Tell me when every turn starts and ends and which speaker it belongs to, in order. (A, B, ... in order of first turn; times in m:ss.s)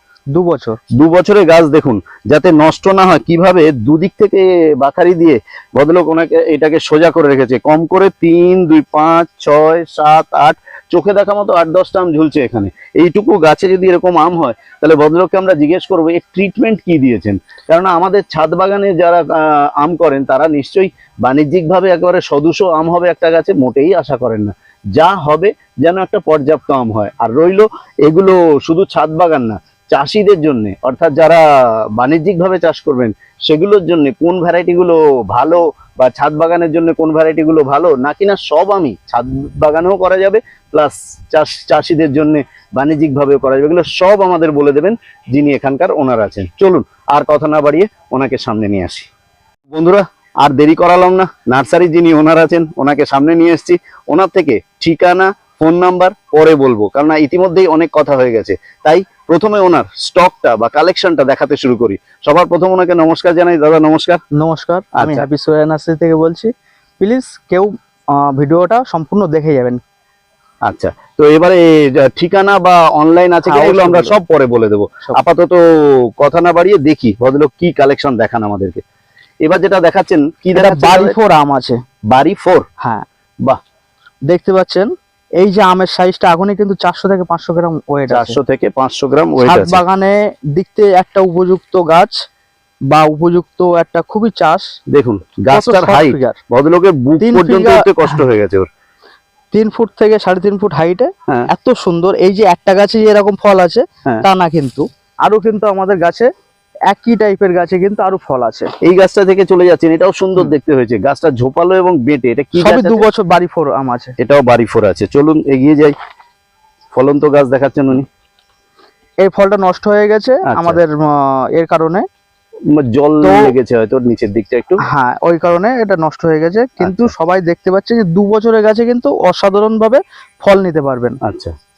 0:00.3-0:00.8 A
0:00.9-0:31.4 B
0:31.9-0:49.1 B
0:49.7-1:04.2 B
1:04.3-1:09.8 A
1:05.0-1:05.2 B
1:10.6-1:18.8 B
1:13.4-1:14.2 A
1:19.4-1:21.2 B
1:20.5-1:21.8 A
1:22.1-1:22.6 B
1:24.3-1:28.4 A
1:28.1-1:29.8 B
1:29.4-1:32.2 A
1:32.9-1:34.7 A
1:34.9-1:38.7 B
1:35.5-1:36.4 A
1:37.2-1:38.2 A
1:39.5-1:46.3 A
1:46.9-1:48.7 A
1:48.8-1:53.0 B
1:52.6-1:54.2 A
1:54.2-1:56.0 B
1:56.9-1:58.1 B
1:59.2-2:02.0 A
2:00.4-2:00.8 B
2:02.7-2:04.8 B
2:03.2-2:03.5 A
2:04.8-2:11.2 A
2:06.8-2:07.1 B
2:11.2-2:11.5 B